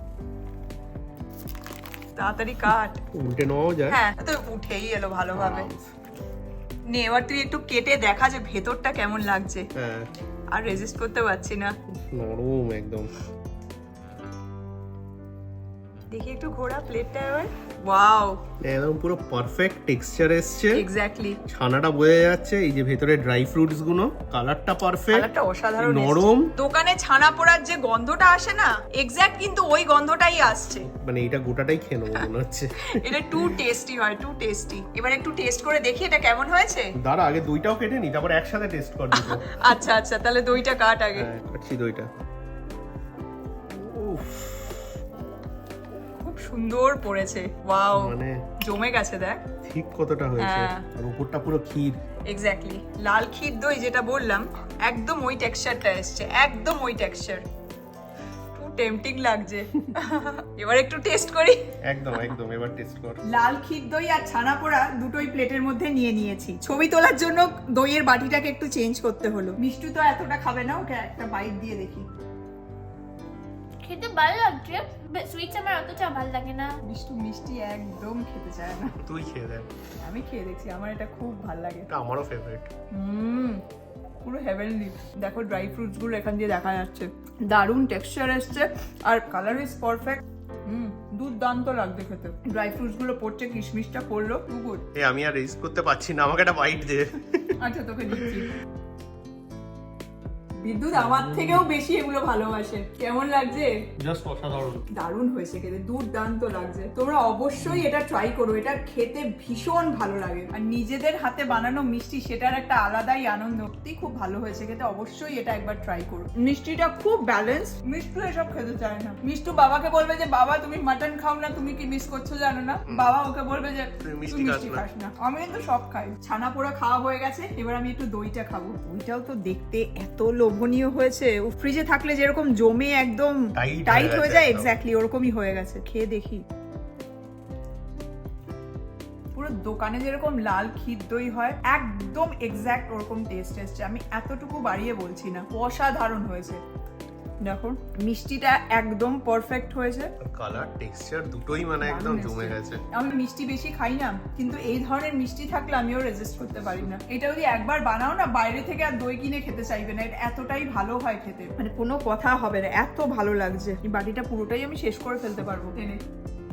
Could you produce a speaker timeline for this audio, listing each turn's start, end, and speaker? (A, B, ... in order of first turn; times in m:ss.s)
0:02.2-0:03.0 A
0:03.1-0:04.0 B
0:03.9-0:05.7 A
0:05.3-0:05.9 B
0:06.9-0:09.7 A
0:09.8-0:10.1 B
0:10.5-0:11.7 A
0:12.1-0:13.1 B
0:16.1-0:18.4 A
0:18.6-0:20.8 B
0:20.8-0:21.4 A
0:21.5-0:25.3 B
0:25.1-0:30.9 A
0:25.8-0:26.5 B
0:30.6-0:33.6 B
0:32.9-0:36.9 A
0:37.0-0:39.5 B
0:39.1-0:41.3 A
0:41.2-0:42.1 B
0:43.7-0:44.8 B
0:46.2-0:49.4 A
0:47.9-0:48.4 B
0:49.7-0:52.0 B
0:50.4-0:50.9 A
0:52.3-0:57.4 A
0:58.6-1:01.6 A
1:01.9-1:03.2 B
1:03.3-1:12.1 A
1:13.8-1:16.8 C
1:16.9-1:19.0 A
1:19.0-1:19.7 B
1:20.0-1:21.9 A
1:21.9-1:22.7 B
1:22.9-1:23.6 A
1:24.2-1:34.8 A
1:35.0-1:37.6 B
1:37.6-1:38.6 A
1:40.6-1:43.8 A
1:40.9-1:41.7 B
1:44.0-1:44.8 B
1:44.9-2:16.4 A
1:47.6-1:47.9 B
2:02.9-2:03.2 B
2:04.0-2:04.8 B
2:13.6-2:14.8 B
2:19.4-2:26.6 A
2:27.4-2:30.1 A
2:30.2-2:32.8 B
2:31.8-2:46.0 A